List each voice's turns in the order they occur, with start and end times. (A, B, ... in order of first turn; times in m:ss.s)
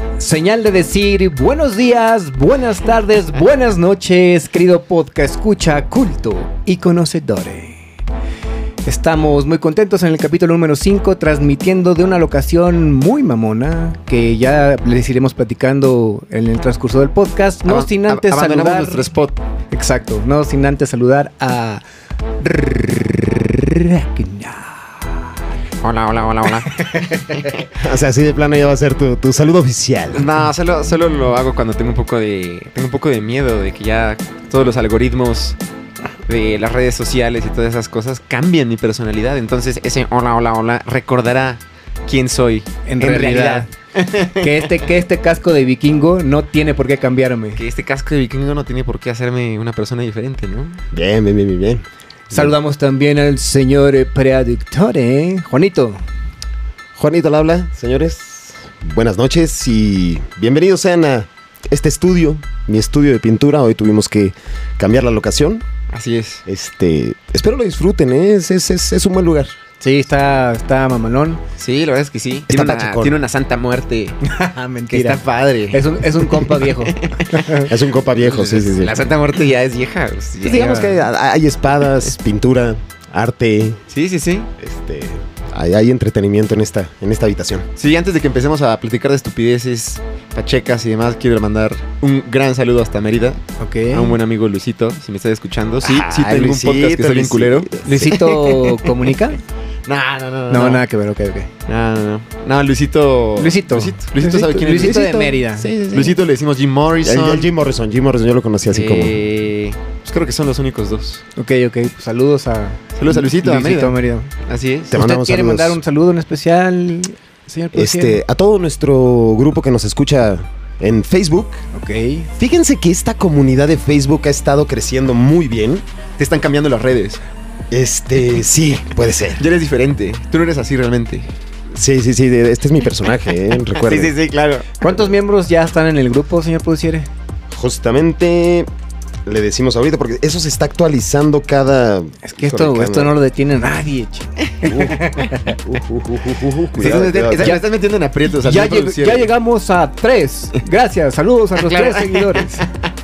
0:00.2-0:07.8 A
0:08.8-0:19.1 A
0:17.6-0:19.4 B
0:19.7-0:21.8 A
0:22.4-0:25.4 A
0:25.8-0:27.7 B
0:26.6-0:27.4 A
0:27.7-0:30.3 C
0:30.1-0:35.6 B
0:36.3-0:44.8 B
0:42.8-0:43.7 A
0:44.4-0:47.6 A
0:47.6-0:50.8 B
0:50.9-0:52.5 C
0:52.3-0:56.0 A
0:57.0-1:05.6 C
1:05.9-1:06.4 B
1:06.4-1:09.5 C
1:09.8-1:11.4 A
1:11.6-1:14.2 B
1:12.5-1:13.2 C
1:14.2-1:17.7 A
1:14.9-1:20.8 B
1:17.6-1:19.0 C
1:20.4-1:23.8 C
1:20.6-1:20.9 A
1:23.9-1:24.5 B
1:24.6-1:27.7 C
1:27.8-1:38.9 B
1:33.6-1:34.1 A
1:35.8-1:38.2 C
1:37.8-1:39.4 A
1:39.9-1:40.8 B
1:40.5-1:41.5 A
1:41.7-1:47.5 B
1:43.4-1:45.7 A
1:44.8-1:46.2 C
1:47.0-1:49.2 C
1:48.7-1:51.2 B
1:51.4-1:54.3 A
1:52.9-1:55.0 B
1:54.9-1:55.8 C
1:54.9-1:58.2 A
1:57.7-2:01.6 C
2:01.7-2:02.3 A
2:02.4-2:05.8 C
2:06.2-2:07.2 B
2:07.7-2:09.4 C
2:09.4-2:11.3 B
2:11.7-2:14.1 C
2:13.6-2:15.0 B
2:14.8-2:17.1 A
2:17.5-2:18.7 C
2:19.2-2:23.2 C
2:22.2-2:25.6 A
2:24.7-2:25.0 C
2:25.6-2:27.6 C
2:26.7-2:29.3 B
2:27.4-2:27.6 A
2:28.3-2:32.6 A
2:31.6-2:32.8 B